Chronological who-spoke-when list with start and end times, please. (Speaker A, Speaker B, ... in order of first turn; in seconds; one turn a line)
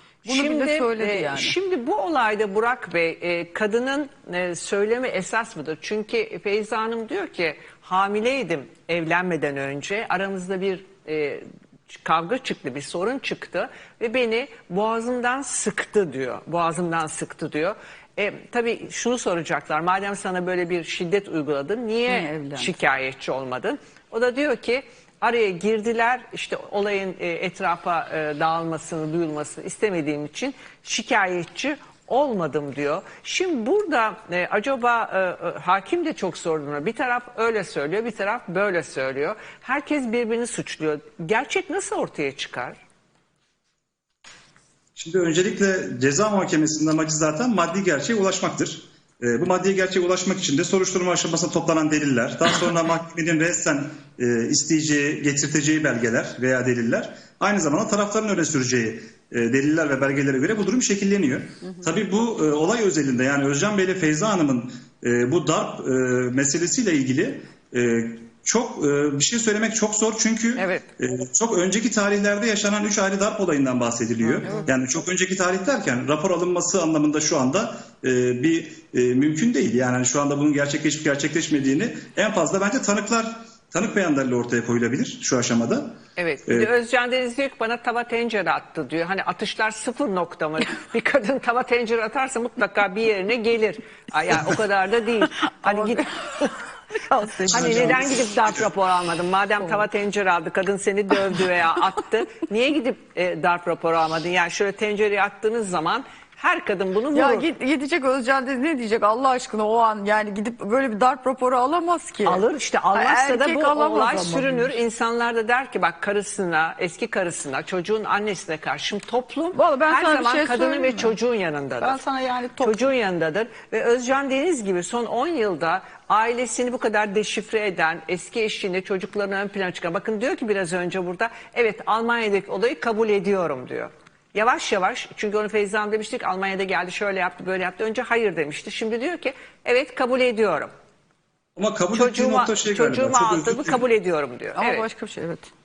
Speaker A: 0.2-1.5
Speaker B: 0.2-42.8
Speaker A: 22.1-22.7
Speaker C: 45.0-86.7
Speaker B: 70.6-70.9
Speaker B: 74.3-74.7
Speaker B: 86.2-96.1
Speaker A: 95.4-96.5
Speaker A: 97.1-98.2
Speaker B: 97.5-107.5
Speaker C: 97.5-98.6
Speaker A: 107.1-114.8
Speaker B: 112.2-122.0
Speaker A: 119.5-121.1
Speaker A: 121.8-122.8
Speaker B: 122.6-140.7
Speaker C: 141.6-143.8
Speaker B: 141.9-144.8
Speaker A: 144.5-145.5